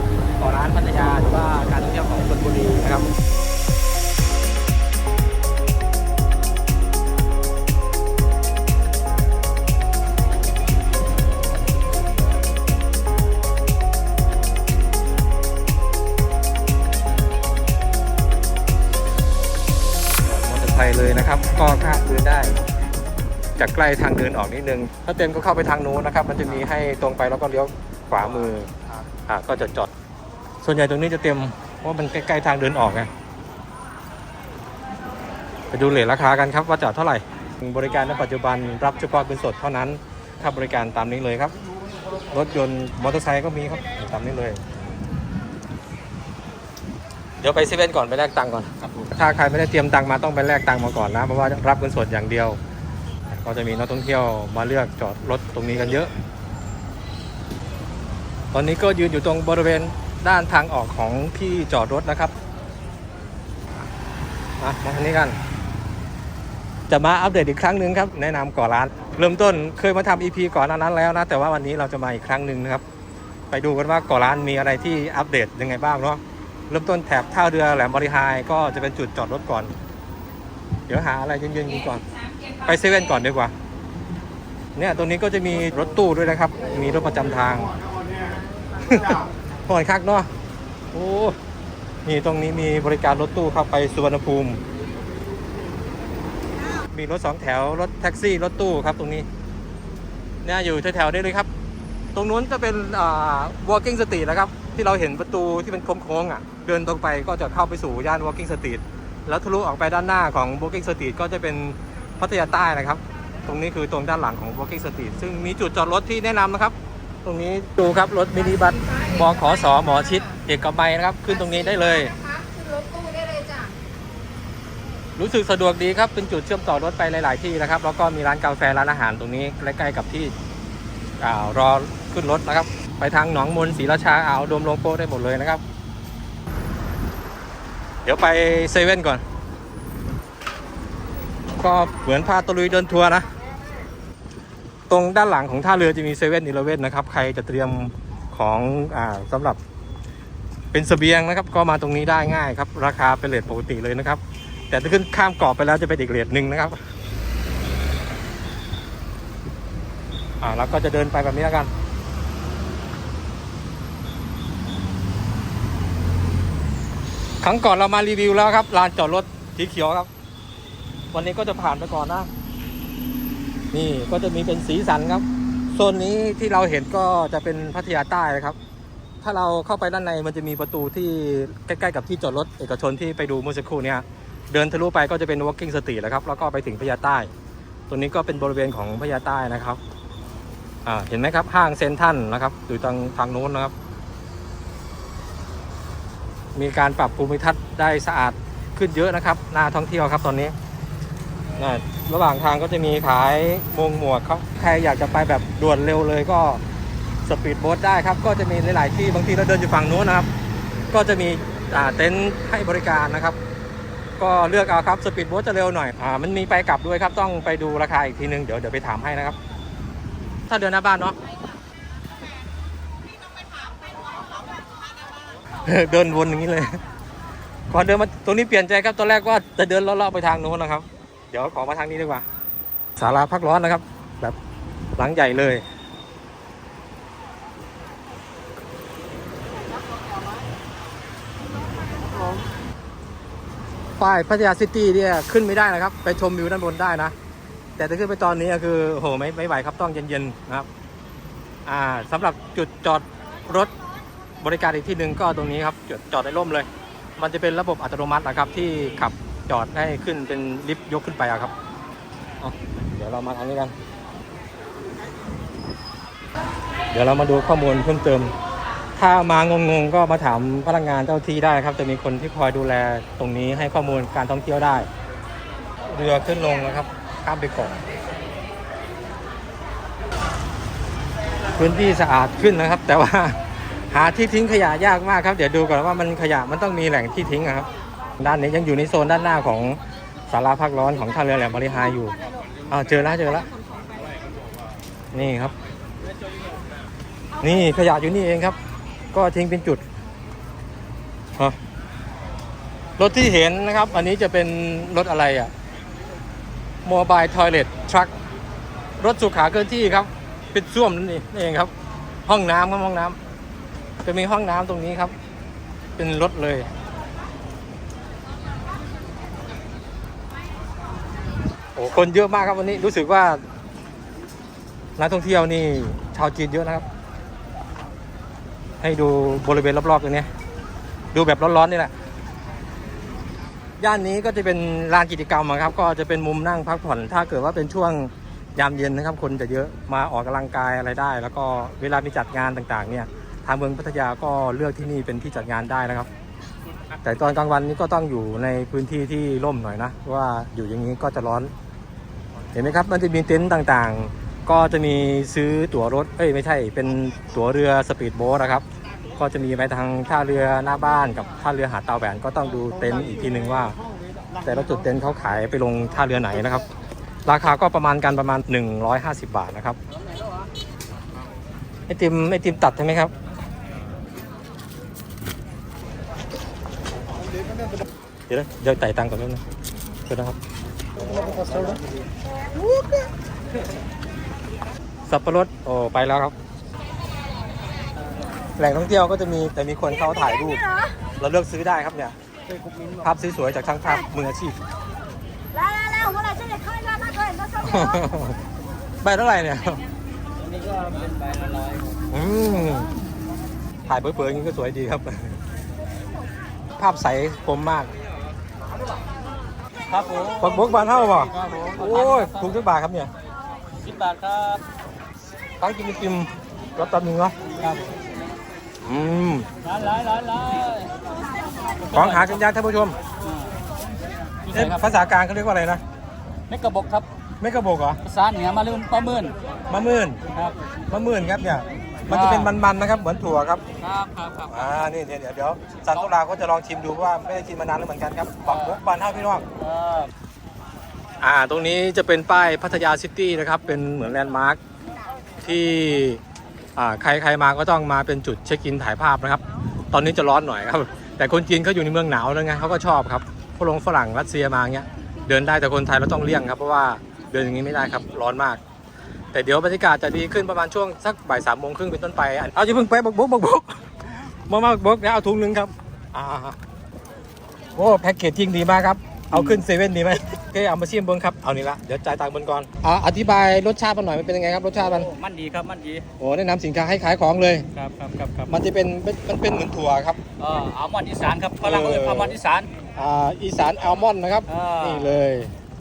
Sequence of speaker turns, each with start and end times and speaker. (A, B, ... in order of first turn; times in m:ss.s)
0:00.4-0:03.1 A
0:20.2-0:22.6 A
0:23.6-0:28.7 A
0:29.3-0:29.9 A
0:30.6-0:33.1 A
0:35.7-0:41.5 A
0:42.3-0:44.6 A
0:47.4-0:52.6 A
0:53.3-0:56.1 A
0:58.5-1:02.3 A
1:04.6-1:05.4 A
1:06.9-1:12.8 A
1:13.5-1:19.7 A
1:20.9-1:22.0 A
1:22.6-1:23.5 A
1:24.7-1:27.7 A
1:28.8-1:30.3 A
1:30.9-1:31.4 A
1:32.0-1:34.6 A
1:36.8-1:39.3 A
1:40.4-1:41.5 A
1:42.1-2:02.2 A
2:02.2-2:03.8 B
2:05.2-2:10.3 A
2:11.2-2:15.6 A
2:18.0-2:19.2 A
2:21.6-2:23.3 A
2:24.9-2:29.6 A
2:30.7-2:36.8 A
2:40.4-2:41.7 A
2:47.4-2:50.1 A
2:51.1-2:52.3 A
2:53.7-2:58.6 A
2:59.2-3:07.3 A
3:07.9-3:09.8 A
3:10.8-3:13.7 A
3:16.5-3:20.5 A
3:21.6-3:26.6 A
3:27.2-3:30.3 A
3:30.9-3:33.4 A
3:34.2-3:39.4 A
3:40.5-3:41.2 A
3:45.6-3:46.8 A
3:47.7-3:52.2 A
3:53.0-3:54.4 A
3:55.0-3:55.6 A
4:04.0-4:07.1 A
4:07.8-4:10.7 A
4:11.6-4:13.7 A
4:14.4-4:21.5 A
4:22.4-4:23.7 A
4:26.9-4:28.3 A
4:29.0-4:34.9 A
4:35.8-4:37.8 A
4:41.5-4:47.7 A
4:48.2-4:49.8 A
4:50.3-4:52.2 A
4:52.7-4:53.5 A
4:55.1-4:55.5 A
4:57.4-4:58.6 A
4:59.1-4:59.8 A
5:03.0-5:05.5 A
5:06.8-5:08.1 A
5:09.0-5:11.7 A
5:12.2-5:13.2 A
5:14.0-5:15.1 A
5:16.0-5:16.7 A
5:21.7-5:23.4 A
5:25.0-5:26.8 A
5:28.8-5:30.3 A
5:31.1-5:31.9 A
5:33.8-5:46.1 A
5:47.0-5:51.5 A
5:52.5-5:58.6 A
5:59.2-6:03.8 A
6:04.4-6:06.6 A
6:07.2-6:09.8 A
6:11.9-6:13.1 A
6:18.3-6:19.4 A
6:20.1-6:20.4 A
6:25.1-6:26.3 A
6:28.6-6:32.2 A
6:33.0-6:34.6 A
6:35.5-6:37.6 B
6:37.6-6:38.4 A
6:39.0-6:39.8 A
6:40.4-6:41.9 C
6:42.1-6:42.9 A
6:43.8-6:45.4 A
6:46.8-6:47.9 A
6:49.9-6:50.7 C
6:50.4-6:53.1 A
6:51.3-6:52.5 C
6:53.8-6:54.6 C
6:55.6-6:57.4 A
6:57.6-6:58.0 C
6:58.8-6:59.5 A
6:59.6-7:01.0 C
7:01.7-7:02.4 C
7:01.9-7:03.0 A
7:03.2-7:03.5 C
7:04.4-7:04.8 C
7:04.5-7:05.8 A
7:06.5-7:07.1 C
7:07.4-7:08.0 A
7:08.0-7:09.4 C
7:09.7-7:10.2 A
7:10.3-7:10.6 C
7:10.9-7:13.6 A
7:12.1-7:12.5 C
7:13.8-7:14.7 C
7:14.5-7:19.4 A
7:18.4-7:18.8 C
7:19.6-7:20.1 C
7:21.2-7:24.6 A
7:25.4-7:26.2 A
7:26.8-7:38.6 A
7:39.3-7:46.6 A
7:47.7-7:55.1 A
7:49.3-7:49.6 C
7:54.8-7:56.1 C
7:56.2-7:57.7 A
7:57.7-7:58.5 C
7:58.5-8:00.2 A
8:00.4-8:02.7 C
8:01.6-8:02.4 A
8:02.9-8:05.5 A
8:04.5-8:05.2 C